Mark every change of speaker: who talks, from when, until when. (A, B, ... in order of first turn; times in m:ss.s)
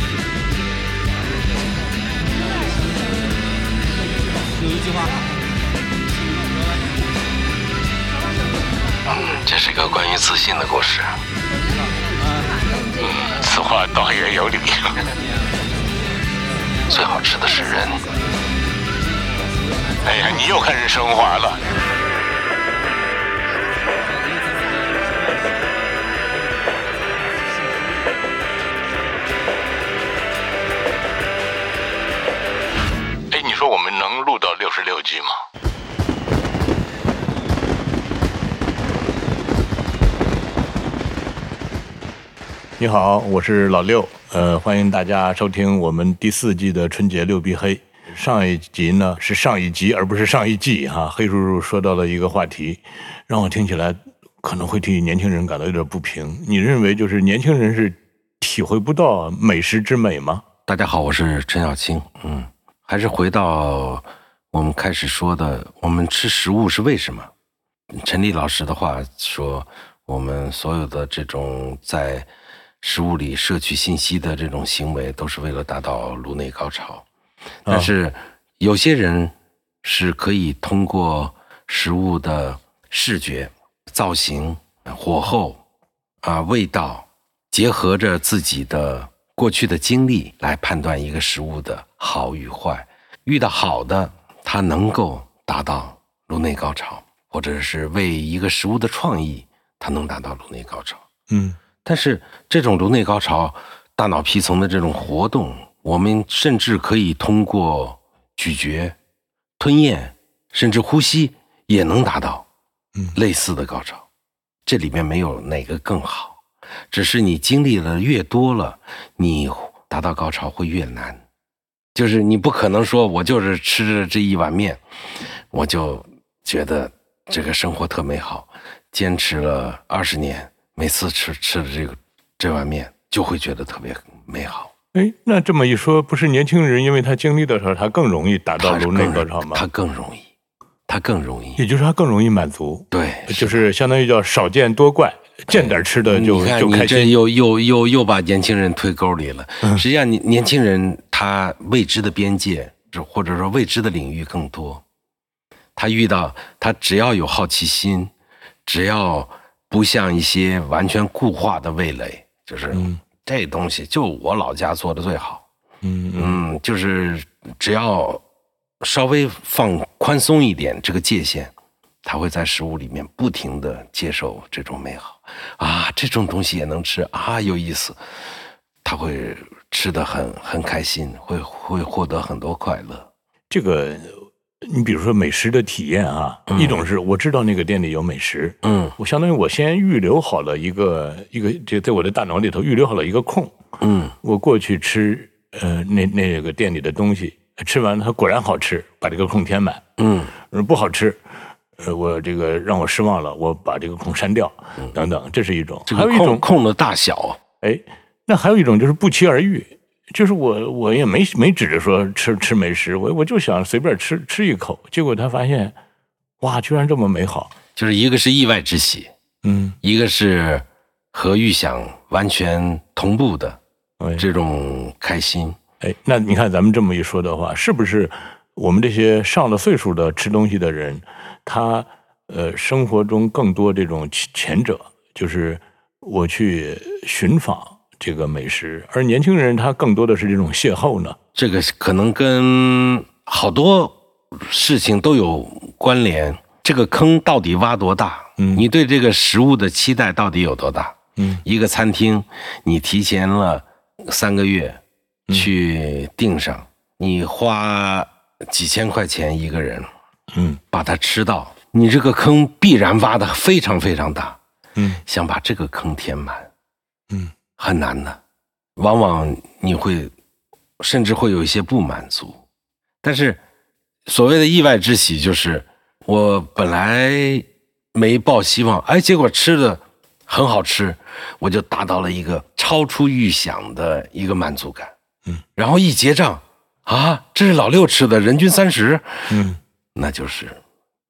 0:02.2-0:03.6 A
0:04.7-0:05.0 A
0:06.1-0:06.8 A
0:08.1-0:09.4 A
0:09.1-0:11.2 B
0:11.4-0:14.1 A
0:13.0-0:15.0 C
0:16.8-0:18.2 A
0:16.9-0:18.0 B
0:20.0-0:21.6 C
0:33.3-0:35.4 C
0:42.8-1:00.4 C
1:00.7-1:07.3 B
1:07.9-1:12.3 B
1:12.8-1:17.1 B
1:17.6-1:25.6 B
1:17.7-1:17.9 C
1:26.2-1:41.0 B
1:41.3-1:41.6 C
1:41.8-1:49.0 B
1:49.6-1:52.5 B
1:53.1-1:54.1 B
1:54.7-2:01.2 B
2:02.0-2:04.8 B
2:05.5-2:14.7 B
2:14.9-2:19.6 C
2:18.6-2:20.3 B
2:20.9-2:21.6 B
2:21.6-2:27.1 C
2:22.9-2:23.6 B
2:25.5-2:34.8 B
2:35.8-2:38.1 B
2:38.7-2:45.4 B
2:42.7-2:43.0 C
2:45.8-2:46.4 C
2:46.2-2:48.2 B
2:48.8-2:51.5 B
2:52.0-2:58.0 B
2:58.8-3:03.1 B
3:03.5-3:13.5 C
3:06.5-3:06.8 B
3:08.6-3:09.0 B
3:13.8-3:14.2 B
3:14.2-3:19.8 C
3:20.0-3:20.4 B
3:20.5-3:21.2 C
3:21.8-3:26.4 C
3:25.9-3:27.4 B
3:27.6-3:35.8 C
3:36.4-3:37.5 C
3:37.8-3:39.1 B
3:39.4-3:39.8 C
3:39.8-3:43.6 B
3:44.0-3:44.2 C
3:44.2-3:45.6 B
3:45.8-4:01.2 C
4:01.4-4:14.8 B
4:08.4-4:08.6 C
4:11.2-4:11.4 C
4:15.3-4:19.9 B
4:20.3-4:20.6 C
4:20.7-4:24.4 B
4:24.8-4:25.0 C
4:25.1-4:26.5 B
4:27.6-4:28.2 B
4:28.8-4:30.1 B
4:30.8-4:32.4 B
4:33.0-4:33.4 B
4:34.1-4:44.9 B
4:45.6-4:49.3 B
4:49.3-4:49.6 C
4:50.0-4:50.6 B